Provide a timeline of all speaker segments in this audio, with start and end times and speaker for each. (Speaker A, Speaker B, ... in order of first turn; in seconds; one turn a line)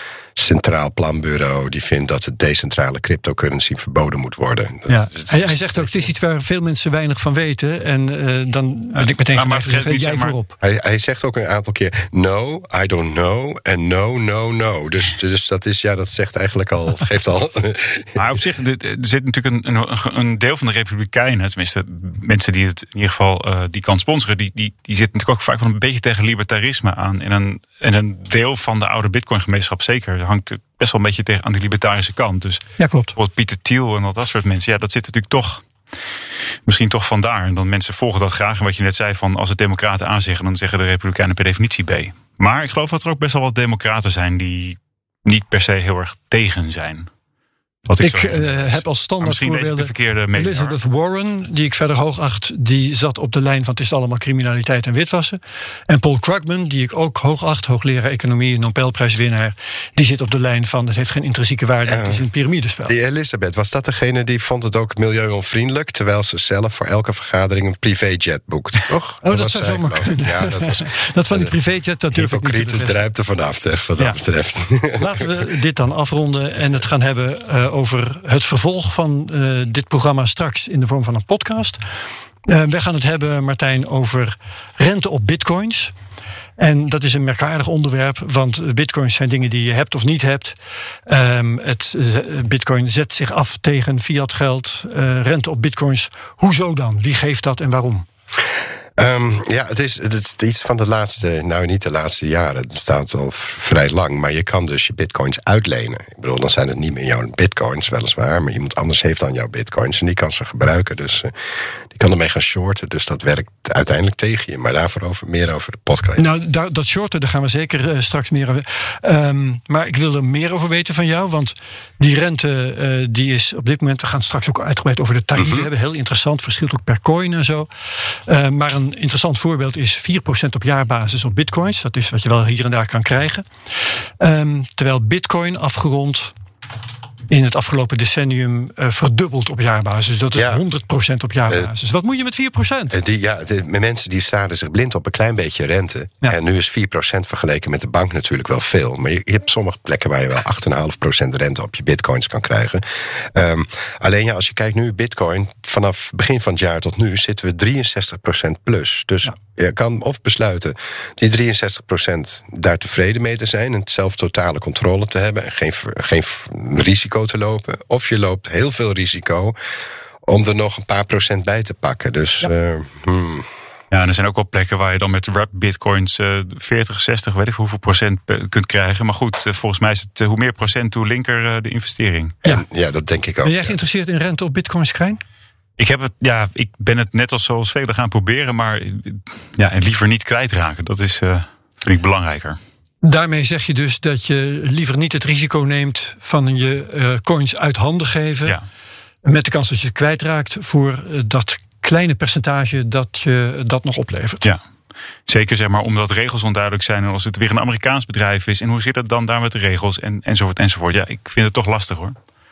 Speaker A: 0.3-6.1
Speaker B: 4.9-10.6
Speaker C: 8.9-10.3
Speaker A: 10.6-18.2
Speaker C: 18.1-35.6
Speaker B: 32.8-33.1
Speaker C: 36.6-47.1
Speaker C: 47.9-50.8
Speaker B: 48.0-62.9
Speaker A: 61.8-62.2
Speaker A: 62.9-71.5
Speaker B: 69.2-73.0
Speaker A: 72.1-75.3
Speaker B: 74.9-81.8
Speaker B: 82.5-85.9
Speaker B: 86.6-98.0
Speaker A: 99.0-111.3
Speaker A: 111.9-116.3
Speaker B: 116.2-127.7
Speaker A: 125.4-125.7
Speaker B: 128.3-133.4
Speaker B: 134.2-136.3
Speaker B: 137.3-142.9
Speaker A: 140.3-140.6
Speaker A: 142.9-169.5
Speaker A: 170.2-173.5
Speaker C: 173.9-182.3
Speaker A: 182.4-183.8
Speaker B: 183.4-185.2
Speaker C: 185.8-192.6
Speaker B: 193.0-198.6
Speaker B: 199.2-204.4
Speaker C: 205.2-212.2